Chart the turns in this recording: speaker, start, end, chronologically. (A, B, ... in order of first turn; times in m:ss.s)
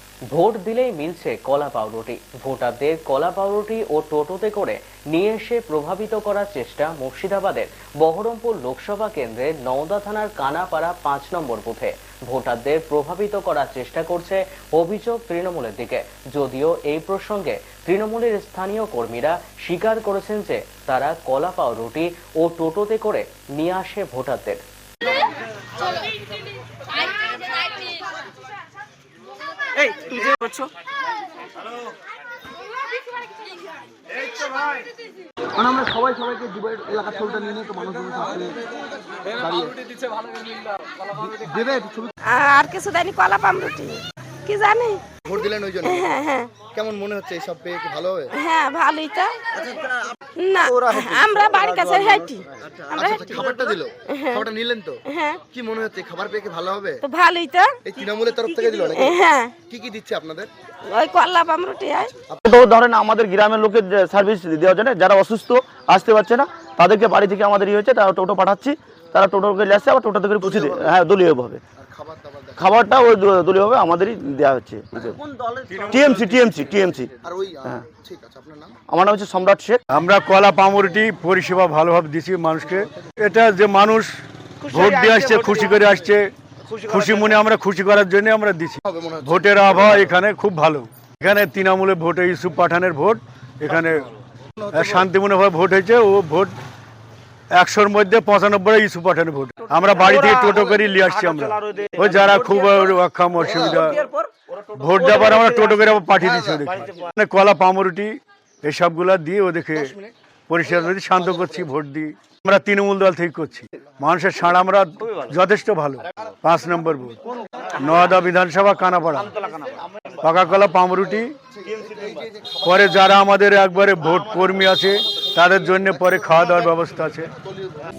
0:00.3-0:24.6 A
0:29.9-0:30.6 B
0:35.6-0:38.7 C
0:39.3-0:39.8 C
0:41.1-0:42.1 C
0:42.2-0:45.1 D
0:45.2-0:48.3 C
0:45.8-0:46.6 D
0:48.3-0:49.6 D
0:50.4-0:54.5 D
0:50.9-0:52.2 C
0:52.8-0:57.0 C
0:55.1-0:55.4 D
0:57.0-0:57.8 D
0:57.9-1:00.5 C
0:58.5-0:59.6 D
1:00.9-1:02.1 D
1:02.4-1:11.6 E
1:10.4-1:10.9 C
1:11.8-1:12.6 C
1:12.6-1:15.2 E
1:15.7-1:16.3 F
1:15.9-1:17.1 E
1:17.2-1:18.8 C
1:18.9-1:19.8 E
1:19.9-1:24.1 F
1:22.8-1:23.1 C
1:24.6-1:25.9 B
1:24.7-1:26.3 F
1:26.9-1:34.1 F
1:26.9-1:27.2 B
1:28.8-1:30.1 C
1:34.6-1:35.1 C
1:34.7-1:36.5 F
1:37.6-1:44.0 F
1:39.8-1:42.6 B
1:43.6-1:44.2 B
1:44.8-1:48.1 F
1:44.9-1:45.7 B
1:46.2-1:46.5 C
1:48.6-1:50.0 F
1:50.5-1:57.2 F
1:57.8-1:59.4 F
1:59.3-1:59.8 B
2:00.2-2:01.3 F
2:01.6-2:03.1 C
2:02.6-2:07.3 F
2:05.7-2:07.8 C